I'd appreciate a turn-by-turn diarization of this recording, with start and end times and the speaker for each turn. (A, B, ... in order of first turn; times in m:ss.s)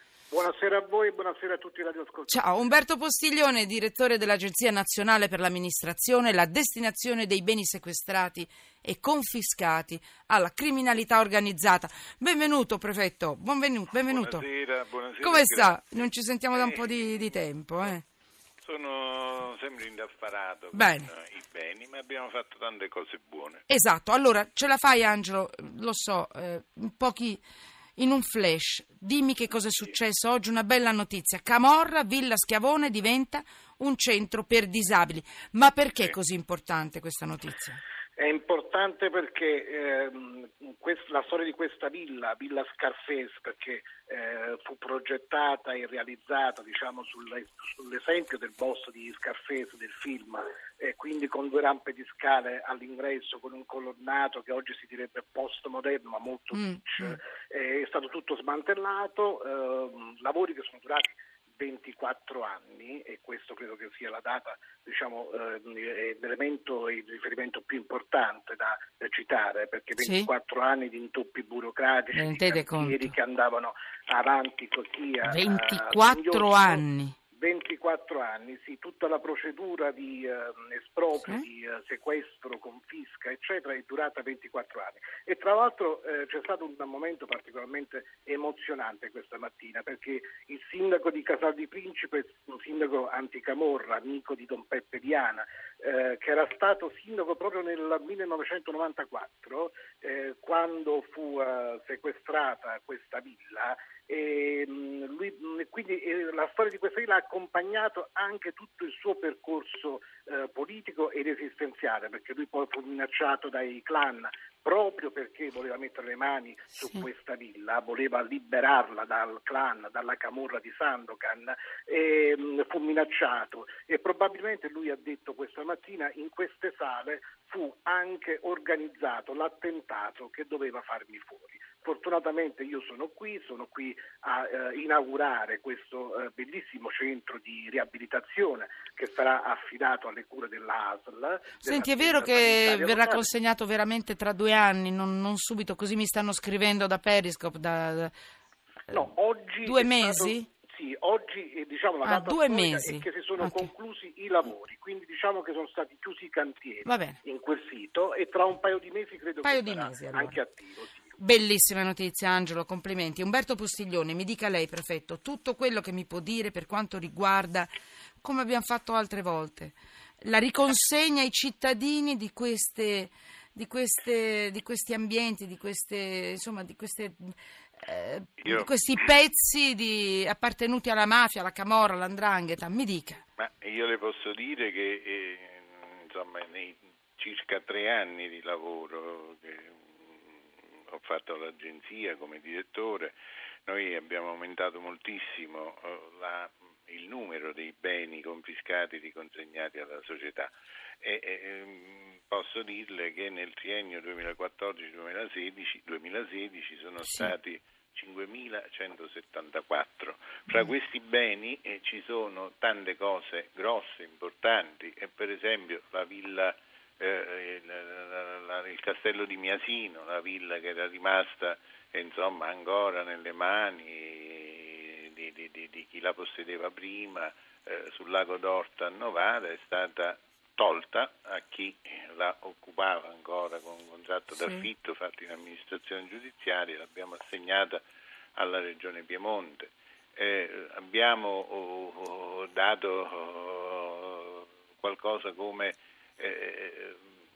0:00.3-0:02.4 A
0:02.3-0:14.4 B
0:14.1-0:17.3 C
0:15.2-0:18.0 B
0:18.6-0:23.6 C
0:20.7-0:21.1 B
0:23.7-0:27.4 B
0:28.0-0:37.8 B
0:38.2-2:23.3 A
0:56.6-0:57.2 B
1:10.0-1:10.3 B
1:12.1-1:13.1 B
1:15.3-1:17.2 B
2:21.6-2:28.1 B
2:28.9-2:41.2 A
2:29.6-2:30.5 B
2:32.0-2:33.7 B
2:36.8-2:37.2 B
2:39.4-2:40.4 B
2:41.2-2:47.7 B
2:48.2-3:03.2 B
2:58.4-2:58.8 C
3:03.4-3:20.5 C
3:21.0-3:57.8 C
3:58.4-4:07.0 C